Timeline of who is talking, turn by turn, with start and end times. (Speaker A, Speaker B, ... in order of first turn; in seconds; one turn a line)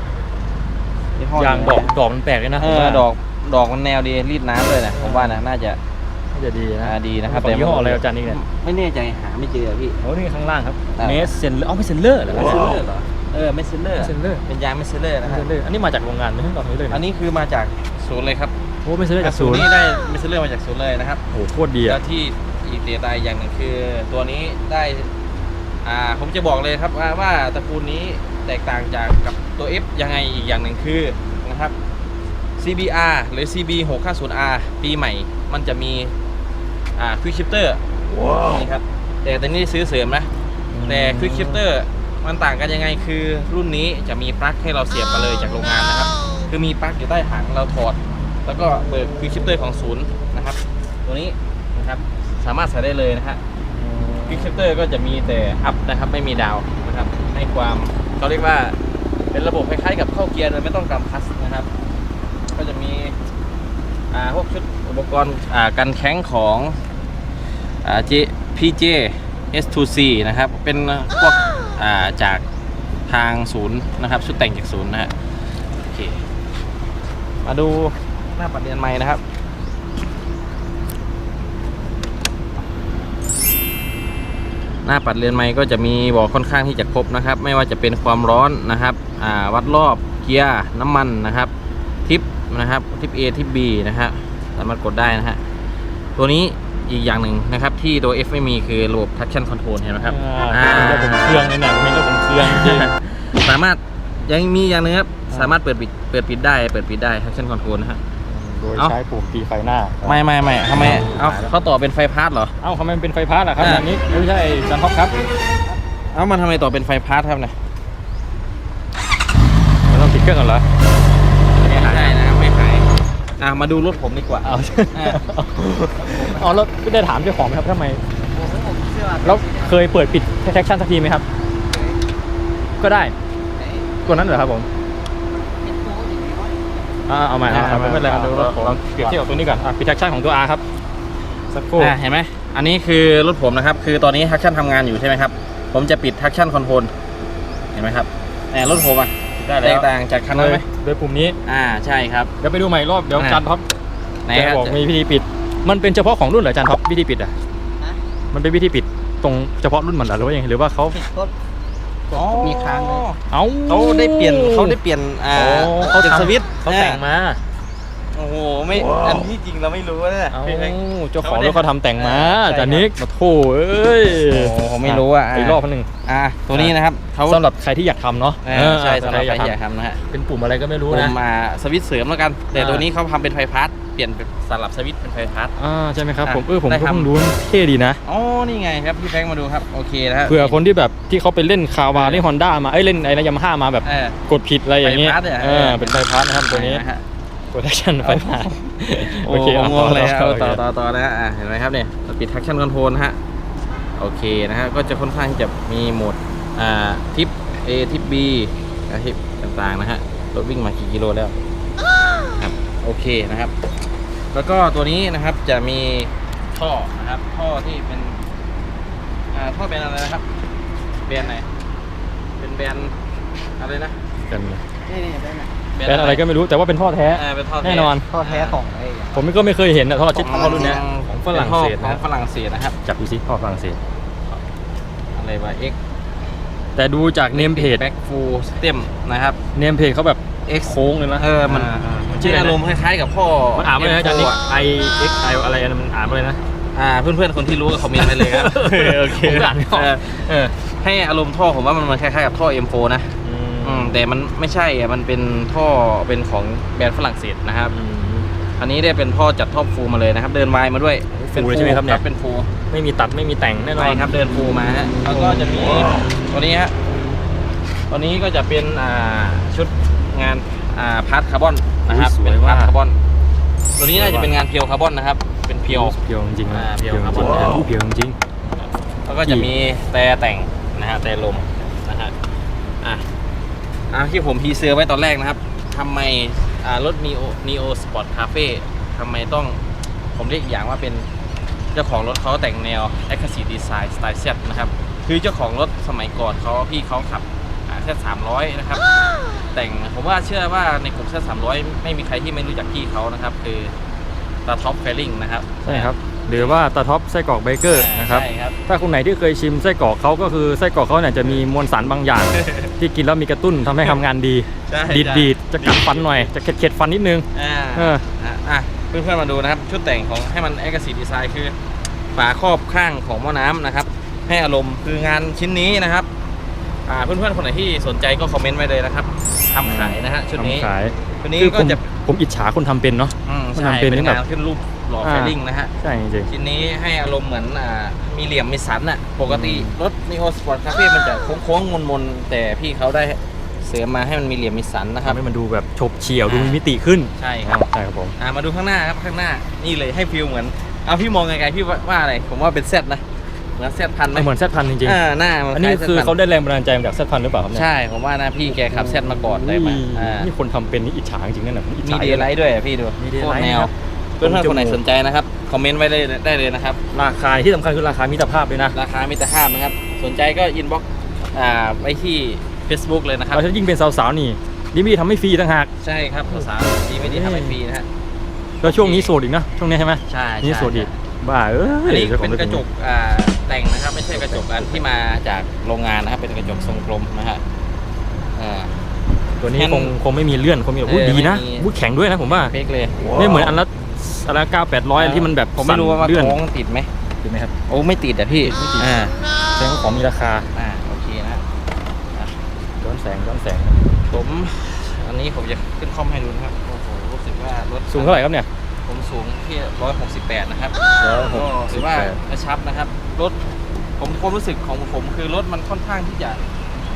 Speaker A: 1.1-2.0
Speaker B: 1.4-3.1
Speaker A: 2.6-5.8
Speaker B: 4.9-5.4
Speaker B: 6.3-8.4
Speaker A: 6.8-10.0
Speaker B: 10.0-12.6
Speaker A: 11.0-11.3
Speaker A: 12.3-15.5
Speaker B: 14.0-14.4
Speaker B: 15.2-17.0
Speaker A: 16.9-18.5
Speaker B: 18.9-19.7
Speaker A: 19.2-21.2
Speaker B: 21.3-22.0
Speaker A: 21.9-25.1
Speaker A: 25.8-31.8
Speaker A: 32.6-36.2
Speaker A: 37.0-37.8
Speaker A: 38.4-40.3
Speaker B: 40.7-41.6
Speaker A: 40.9-53.4
Speaker B: 53.7-54.5
Speaker A: 54.3-58.8
Speaker A: 59.3-61.7
Speaker A: 62.5-63.2
Speaker A: 64.1-66.8
Speaker A: 67.8-72.4
Speaker A: 73.1-75.1
Speaker A: 75.7-76.2
Speaker A: 77.4-79.2
Speaker A: 84.8-91.5
Speaker A: 92.1-95.4
Speaker A: 96.2-101.5
Speaker B: 100.0-102.9
Speaker A: 102.4-108.0
Speaker B: 108.3-110.2
Speaker A: 110.0-112.5
Speaker B: 110.7-111.5
Speaker B: 112.6-115.2
Speaker A: 113.6-113.9
Speaker A: 116.1-117.5
Speaker B: 119.9-120.7
Speaker A: 121.5-125.2
Speaker B: 121.6-122.2
Speaker B: 124.4-128.0
Speaker C: 126.0-126.6
Speaker C: 128.3-129.8
Speaker B: 129.2-131.3
Speaker C: 131.7-132.0
Speaker B: 132.8-133.2
Speaker C: 133.6-133.9
Speaker B: 134.1-134.7
Speaker C: 135.6-136.7
Speaker B: 137.1-140.6
Speaker A: 137.5-139.2
Speaker B: 141.5-141.9
Speaker A: 141.8-146.9
Speaker A: 147.7-150.7
Speaker B: 149.4-151.4
Speaker A: 151.4-152.3
Speaker B: 152.4-153.7
Speaker A: 153.2-153.4
Speaker A: 154.3-154.8
Speaker B: 154.3-157.3
Speaker B: 158.3-161.0
Speaker C: 160.9-161.3
Speaker A: 162.1-167.0
Speaker C: 162.1-163.0
Speaker B: 163.3-164.8
Speaker B: 165.3-167.4
Speaker A: 168.1-172.9
Speaker B: 170.3-175.9
Speaker A: 174.3-177.4
Speaker B: 177.3-179.5
Speaker A: 178.4-180.1
Speaker B: 180.1-181.2
Speaker A: 180.9-185.5
Speaker B: 182.5-182.9
Speaker B: 185.6-188.0
Speaker A: 186.2-187.1
Speaker A: 188.0-190.6
Speaker B: 190.3-196.8
Speaker A: 191.9-192.3
Speaker A: 193.8-194.2
Speaker A: 194.8-197.1
Speaker B: 197.5-200.6
Speaker A: 198.0-198.3
Speaker A: 199.0-203.2
Speaker A: 204.0-211.4
Speaker A: 212.4-213.5
Speaker A: 214.3-218.2
Speaker A: 219.3-220.3
Speaker A: 221.1-221.5
Speaker A: 222.4-223.0
Speaker A: 223.6-224.0
Speaker B: 224.3-224.6
Speaker C: 224.8-225.5
Speaker A: 225.7-226.2
Speaker B: 225.8-228.1
Speaker A: 227.1-228.6
Speaker C: 228.1-229.3
Speaker B: 229.1-232.0
Speaker A: 230.1-232.8
Speaker C: 230.4-230.7
Speaker B: 232.8-233.8
Speaker A: 235.1-235.8
Speaker B: 236.8-237.8
Speaker A: 237.3-239.4
Speaker B: 239.6-242.6
Speaker A: 241.2-244.4
Speaker B: 243.6-246.4
Speaker A: 246.7-257.7
Speaker B: 247.9-250.5
Speaker B: 253.2-254.0
Speaker B: 257.7-258.3
Speaker A: 258.6-262.5
Speaker B: 261.1-262.0
Speaker B: 262.7-264.1
Speaker A: 263.8-266.8
Speaker B: 265.1-265.5
Speaker A: 267.9-273.0
Speaker B: 271.9-272.7
Speaker A: 273.8-276.0
Speaker B: 273.9-274.3
Speaker B: 275.7-278.2
Speaker A: 276.5-277.7
Speaker A: 279.1-282.2
Speaker B: 279.2-279.5
Speaker A: 283.9-289.6
Speaker A: 290.1-291.1
Speaker A: 291.7-298.9
Speaker A: 299.5-303.8
Speaker A: 304.5-306.6
Speaker B: 305.6-318.1
Speaker A: 307.7-308.6
Speaker A: 312.3-312.7
Speaker A: 314.7-316.3
Speaker A: 317.3-321.6
Speaker A: 322.1-326.1
Speaker A: 326.9-330.7
Speaker B: 329.6-334.2
Speaker A: 331.2-331.8
Speaker A: 333.2-335.7
Speaker B: 335.0-336.3
Speaker A: 336.3-345.2
Speaker B: 339.3-339.8
Speaker B: 345.0-348.1
Speaker A: 346.3-346.6
Speaker A: 347.1-347.6
Speaker A: 348.2-354.3
Speaker B: 354.1-355.0
Speaker A: 354.8-356.1
Speaker B: 355.5-357.6
Speaker A: 357.5-360.3
Speaker B: 358.5-362.3
Speaker A: 361.8-366.8
Speaker B: 363.0-364.8
Speaker B: 366.9-368.8
Speaker A: 368.7-373.5
Speaker B: 373.3-375.7
Speaker A: 375.8-377.9
Speaker B: 377.0-377.6
Speaker B: 378.6-382.6
Speaker A: 378.6-379.1
Speaker A: 380.1-381.0
Speaker A: 381.7-387.4
Speaker B: 384.1-384.8
Speaker A: 388.4-388.7
Speaker B: 389.4-392.5
Speaker A: 389.5-390.0
Speaker A: 390.8-391.7
Speaker A: 392.2-393.1
Speaker B: 393.1-396.4
Speaker A: 395.0-396.9
Speaker B: 397.2-397.5
Speaker A: 397.7-399.1
Speaker B: 398.5-398.9
Speaker B: 399.6-400.5
Speaker A: 400.5-401.4
Speaker B: 402.8-403.9
Speaker A: 404.1-408.2
Speaker B: 407.9-408.5
Speaker A: 408.9-413.4
Speaker B: 411.0-412.2
Speaker A: 414.0-416.4